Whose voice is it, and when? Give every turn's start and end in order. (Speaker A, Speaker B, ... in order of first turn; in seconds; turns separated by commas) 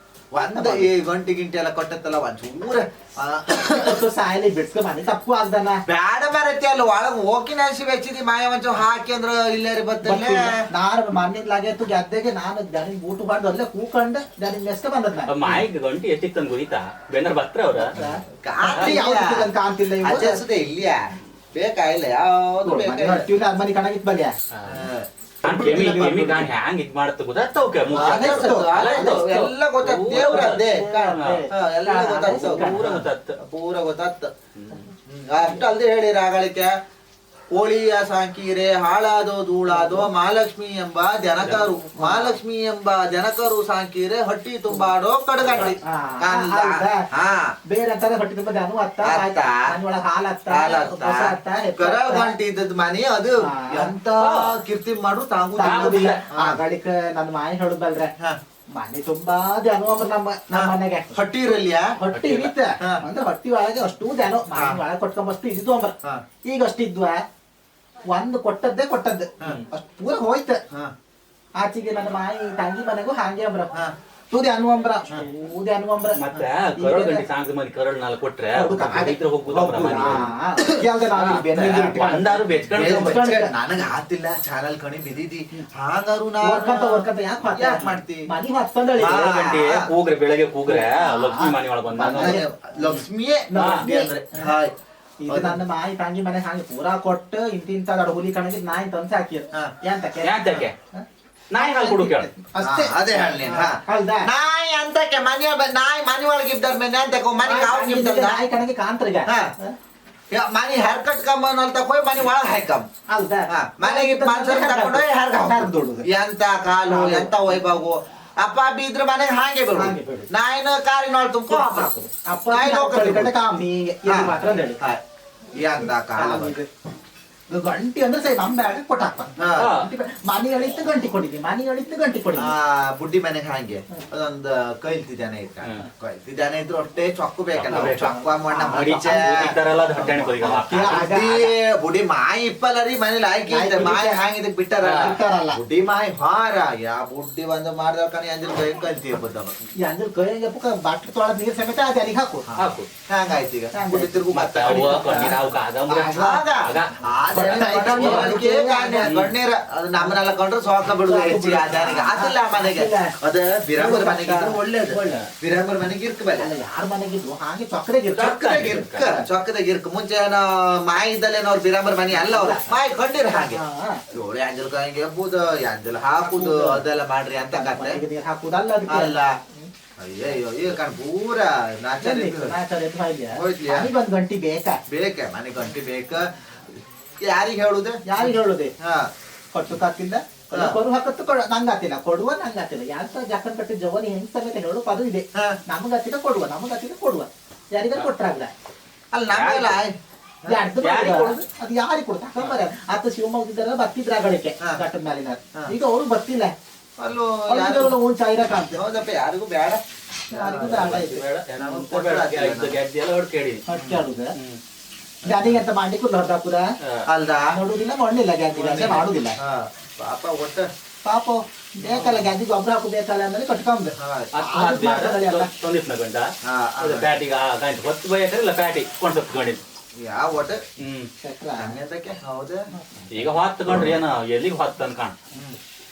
Speaker A: 0.3-4.0, Speaker B: 0.4-0.9, Speaker B: 3.5-5.8, Speaker A: 5.9-10.7, Speaker B: 10.0-15.6, Speaker C: 15.3-17.9, Speaker B: 17.8-20.4, Speaker A: 18.0-19.5, Speaker A: 20.0-23.2, Speaker B: 22.6-24.4, Speaker C: 24.5-24.9, Speaker A: 24.7-26.5, Speaker C: 25.4-30.6, Speaker B: 25.4-26.5, Speaker A: 27.9-34.3, Speaker B: 28.0-29.3, Speaker B: 30.1-33.0, Speaker C: 32.3-33.4, Speaker C: 34.5-34.9, Speaker A: 35.1-36.8, Speaker A: 37.5-47.5, Speaker B: 39.7-40.1, Speaker B: 41.9-42.4, Speaker B: 45.5-47.1, Speaker B: 47.7-52.3, Speaker A: 49.0-49.7, Speaker A: 50.5-56.6, Speaker B: 53.4-54.0, Speaker C: 54.2-54.5, Speaker B: 55.6-58.1, Speaker C: 55.6-56.2, Speaker B: 58.8-61.3, Speaker A: 60.5-62.0, Speaker B: 62.0-67.2, Speaker C: 62.1-62.5, Speaker A: 64.5-64.8, Speaker B: 68.1-70.6, Speaker B: 71.6-73.8, Speaker B: 74.3-77.2, Speaker C: 76.2-80.3, Speaker B: 78.5-83.5, Speaker A: 80.0-82.0, Speaker C: 81.2-83.2, Speaker A: 82.7-88.3, Speaker B: 86.4-89.3, Speaker A: 89.0-89.9, Speaker C: 89.0-92.4, Speaker B: 90.7-93.0, Speaker A: 92.0-94.7, Speaker B: 93.5-94.5, Speaker C: 93.6-93.9, Speaker B: 95.2-101.0, Speaker A: 95.3-95.6, Speaker C: 100.2-100.7, Speaker C: 101.5-102.3, Speaker B: 101.6-104.3, Speaker A: 102.6-108.4, Speaker B: 107.4-109.8, Speaker A: 109.3-109.5, Speaker A: 110.3-112.9, Speaker B: 113.1-116.1, Speaker A: 113.5-121.9, Speaker B: 116.9-117.6, Speaker B: 119.8-120.3, Speaker B: 121.5-124.8, Speaker A: 122.5-123.4, Speaker A: 124.1-125.0, Speaker A: 125.5-126.6, Speaker B: 126.2-126.7, Speaker B: 127.5-132.5, Speaker A: 129.4-129.7, Speaker C: 129.6-129.9, Speaker A: 132.4-149.6, Speaker C: 137.6-138.1, Speaker B: 138.3-139.1, Speaker C: 138.7-141.1, Speaker B: 140.4-141.5, Speaker B: 143.5-144.2, Speaker B: 144.8-145.6, Speaker C: 144.8-145.1, Speaker B: 149.8-152.5, Speaker A: 152.5-155.4, Speaker C: 152.6-152.9, Speaker B: 153.7-156.5, Speaker C: 154.3-157.0, Speaker A: 156.1-166.5, Speaker B: 157.3-159.2, Speaker C: 159.0-159.3, Speaker B: 161.1-163.1, Speaker B: 163.8-165.3, Speaker B: 166.4-169.3, Speaker C: 168.2-169.1, Speaker A: 168.2-173.6, Speaker B: 172.1-172.7, Speaker B: 173.3-174.0, Speaker A: 174.1-178.0, Speaker B: 176.2-176.8, Speaker B: 177.5-179.7, Speaker A: 178.9-179.4, Speaker A: 180.0-182.6, Speaker B: 182.0-184.8, Speaker A: 183.3-183.9, Speaker A: 184.9-189.1, Speaker B: 188.1-188.7, Speaker B: 189.5-198.5, Speaker A: 190.5-190.8, Speaker A: 199.1-200.6, Speaker C: 199.3-199.8, Speaker B: 200.5-206.5, Speaker C: 200.8-201.3, Speaker A: 207.0-208.0, Speaker B: 207.5-208.8, Speaker A: 208.7-212.8, Speaker B: 210.3-211.2, Speaker C: 210.6-213.6, Speaker B: 213.7-214.3, Speaker A: 213.7-214.0, Speaker B: 215.2-216.7, Speaker A: 215.3-215.5, Speaker C: 216.8-217.1, Speaker A: 217.1-217.6, Speaker B: 217.6-219.4, Speaker C: 218.6-219.1, Speaker A: 218.7-220.7, Speaker B: 221.1-225.5, Speaker C: 221.9-222.2, Speaker A: 224.0-224.3, Speaker C: 224.3-229.6, Speaker A: 226.4-227.1, Speaker A: 230.0-230.6, Speaker C: 230.8-231.1, Speaker B: 231.2-231.8, Speaker A: 231.6-232.7, Speaker B: 232.7-233.3, Speaker C: 233.1-235.2